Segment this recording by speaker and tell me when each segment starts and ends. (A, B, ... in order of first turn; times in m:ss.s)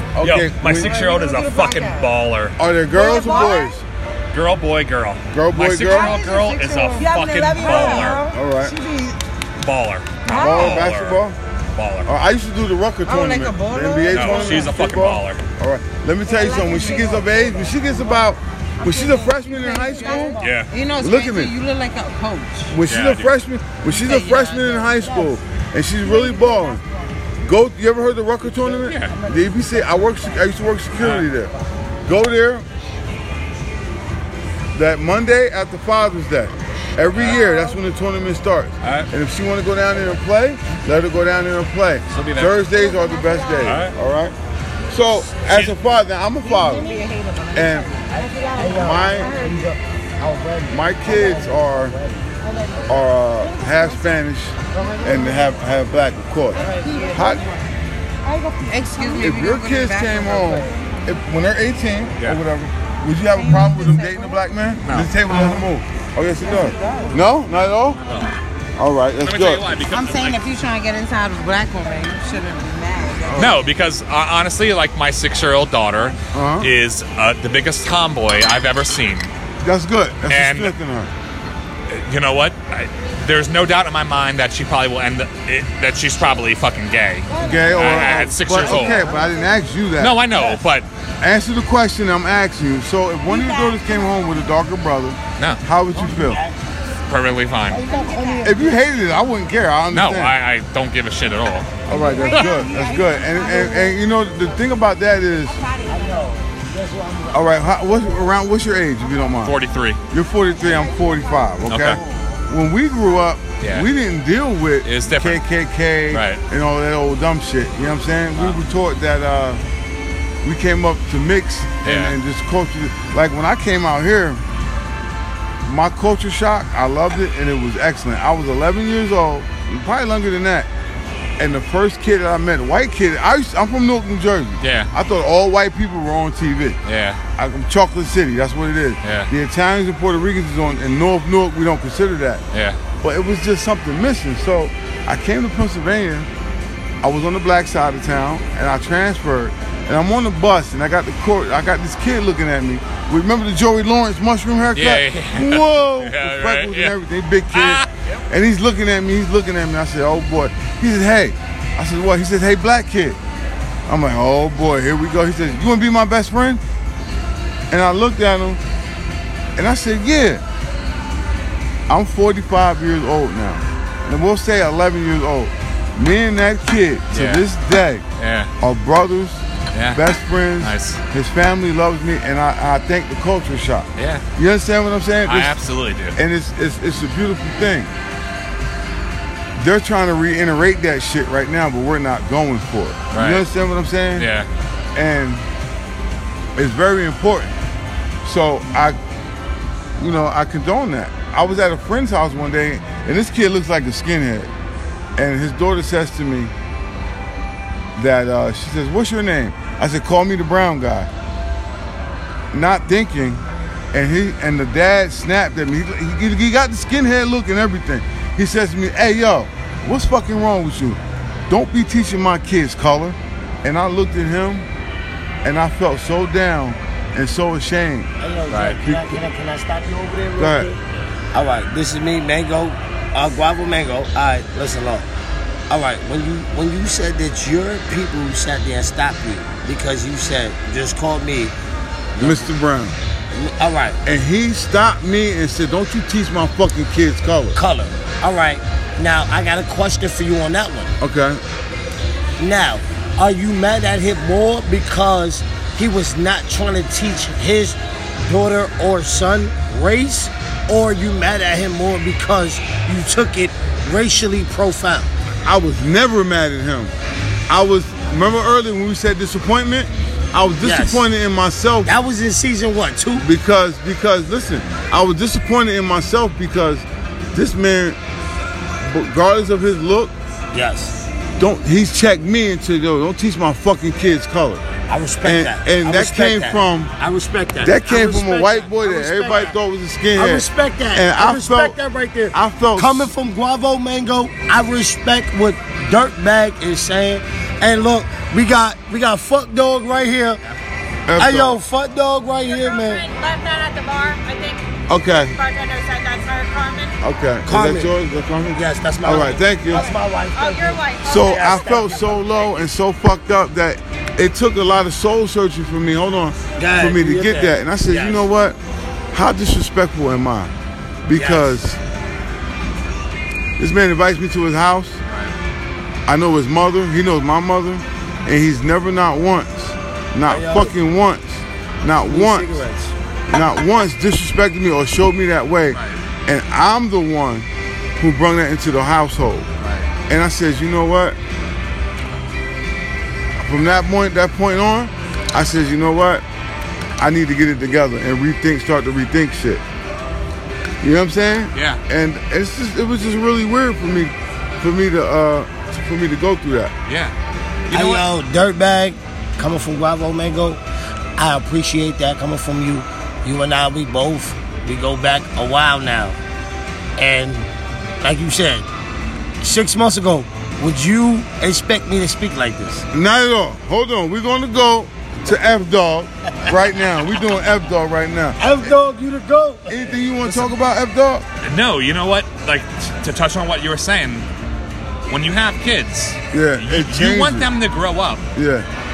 0:00.1-0:01.0 A
0:00.2-0:02.5 B
0:00.8-0:02.1 C
0:01.2-0:01.6 D
0:02.6-0:03.8 A
0:02.9-0:03.8 D
0:03.2-0:03.5 B
0:04.3-0:08.2 B
0:05.3-0:06.2 A
0:05.9-0:09.0 C
0:05.9-0:09.2 D
0:08.3-0:08.8 A
0:09.6-0:11.2 B
0:10.2-0:10.9 C
0:10.3-0:11.4 A
0:11.7-0:12.1 B
0:12.0-0:20.4 A
0:13.0-0:15.0 C
0:14.1-0:15.4 B
0:16.2-0:17.8 D
0:16.6-0:22.8 C
0:19.9-0:20.5 D
0:20.4-0:20.7 B
0:21.0-0:21.5 A
0:22.7-0:26.8 A
0:22.9-0:23.3 B
0:23.8-0:25.1 C
0:26.0-0:26.8 D
0:27.4-0:31.5 A
0:28.4-0:30.4 E
0:28.8-0:29.2 B
0:31.0-0:31.3 B
0:32.0-0:32.6 A
0:34.7-0:44.3 A
0:37.1-0:37.4 B
0:37.3-0:37.8 C
0:38.8-0:39.1 B
0:42.1-0:42.5 B
0:42.6-0:43.8 D
0:43.6-0:43.9 B
0:44.9-0:46.9 A
0:45.4-0:45.8 B
0:46.4-0:48.2 C
0:46.5-0:47.1 D
0:47.5-0:47.9 A
0:48.1-0:49.7 D
0:48.1-0:52.3 E
0:48.7-0:49.4 A
0:50.7-0:52.0 A
0:52.4-0:54.2 D
0:52.9-0:57.4 A
0:54.7-0:55.6 D
0:56.5-0:57.6 D
0:56.5-0:57.6 C
0:58.2-0:59.4 D
0:58.7-1:00.7 C
0:59.2-1:08.0 A
1:03.3-1:04.4 C
1:04.8-1:05.1 B
1:06.4-1:07.2 C
1:08.0-1:08.3 B
1:08.8-1:09.6 A
1:09.2-1:10.4 B
1:09.8-1:13.6 C
1:13.2-1:13.6 A
1:13.3-1:19.3 B
1:16.3-1:16.7 A
1:19.6-1:21.1 A
1:20.3-1:20.8 B
1:21.9-1:29.0 B
1:27.3-1:29.4 E
1:27.4-1:30.2 A
1:30.0-1:30.9 B
1:30.3-1:30.6 E
1:31.2-1:36.4 A
1:33.3-1:34.3 D
1:35.9-1:36.7 E
1:37.1-1:37.8 B
1:37.7-1:38.8 E
1:37.8-1:38.6 D
1:38.4-1:40.4 A
1:39.9-1:41.8 B
1:41.8-1:45.6 A
1:41.9-1:44.0 D
1:45.3-1:46.4 D
1:45.9-1:48.3 E
1:47.3-1:49.6 A
1:49.4-1:50.0 B
1:50.1-1:59.6 A
1:50.2-1:51.8 D
1:51.7-1:52.0 B
1:51.8-1:52.2 E
1:53.6-1:53.9 B
1:54.8-1:55.4 B
1:56.1-1:56.4 B
1:58.3-1:58.6 B
2:00.4-2:04.4 A
2:01.8-2:02.2 B
2:05.6-2:10.7 A
2:11.4-2:16.8 A
2:14.6-2:14.9 B
2:16.8-2:17.2 B
2:17.4-2:22.4 A
2:19.0-2:19.3 B
2:22.5-2:22.8 B
2:23.0-2:26.3 A
2:27.0-2:43.2 A
2:34.7-2:36.9 B
2:37.5-2:38.2 B
2:43.9-2:46.6 A
2:47.7-2:48.6 A
2:49.6-2:50.4 A
2:51.9-2:58.0 A
2:57.1-2:57.4 B
2:58.2-2:58.5 B
2:58.6-3:05.5 A
2:59.7-3:00.0 B
3:00.6-3:01.0 B
3:04.0-3:04.2 B
3:05.2-3:06.2 B
3:06.1-3:07.9 A
3:09.6-3:14.3 A
3:13.1-3:13.5 B
3:14.1-3:14.5 B
3:14.9-3:15.4 A
3:16.6-3:17.5 A
3:18.2-3:19.0 A
3:20.0-3:24.5 A
3:25.2-3:26.5 A
3:28.0-3:31.1 A
3:32.5-3:33.4 A
3:33.9-3:44.6 A
3:45.4-3:48.1 A
3:48.2-3:50.8 E
3:48.5-3:48.8 B
3:48.8-3:49.2 A
3:50.4-3:50.7 A
3:51.3-3:55.1 E
3:55.7-4:01.5 E
4:02.2-4:02.5 E
4:02.2-4:03.0 A
4:03.3-4:04.1 E
4:04.0-4:07.6 A
4:07.5-4:10.9 E
4:11.0-4:11.4 A
4:12.4-4:25.1 E
4:25.4-4:26.9 A
4:27.5-4:31.9 A
4:30.6-4:31.1 E
4:31.8-4:33.3 E
4:33.2-4:38.0 A
4:38.8-4:40.1 A
4:40.5-4:41.0 E
4:41.4-4:44.6 A
4:44.9-4:49.6 E
4:45.2-4:46.9 A
4:47.6-4:51.8 A
4:50.1-5:00.4 E
4:52.3-4:53.1 A
5:01.1-5:01.6 A
5:01.2-5:03.1 E
5:02.4-5:07.0 D
5:04.9-5:05.4 A
5:07.0-5:09.9 A
5:07.4-5:08.0 E
5:08.5-5:12.3 E
5:10.3-5:12.0 D
5:11.0-5:18.6 A
5:16.6-5:18.2 E
5:19.1-5:20.5 A
5:21.0-5:21.8 A
5:21.1-5:21.6 E
5:23.6-5:25.0 A
5:25.1-5:25.3 B
5:26.1-5:32.6 A
5:30.2-5:30.7 E
5:32.0-5:32.9 E
5:33.3-5:37.5 A
5:35.7-5:36.0 B
5:38.0-5:39.5 A
5:39.6-5:39.9 B
5:40.1-5:41.2 A
5:43.4-5:46.2 A
5:47.0-5:49.6 A
5:50.8-5:56.7 A
5:51.5-5:51.8 B
5:56.8-5:57.1 B
5:57.7-5:58.1 B
5:57.7-6:00.6 E
6:01.2-6:06.2 E
6:07.0-6:07.5 E
6:08.0-6:08.7 E
6:09.4-6:12.8 E
6:12.9-6:18.8 A
6:18.4-6:20.0 E
6:19.7-6:21.2 A
6:20.2-6:20.5 B
6:21.4-6:24.2 B
6:25.1-6:28.2 B
6:26.3-6:27.5 A
6:28.4-6:28.6 A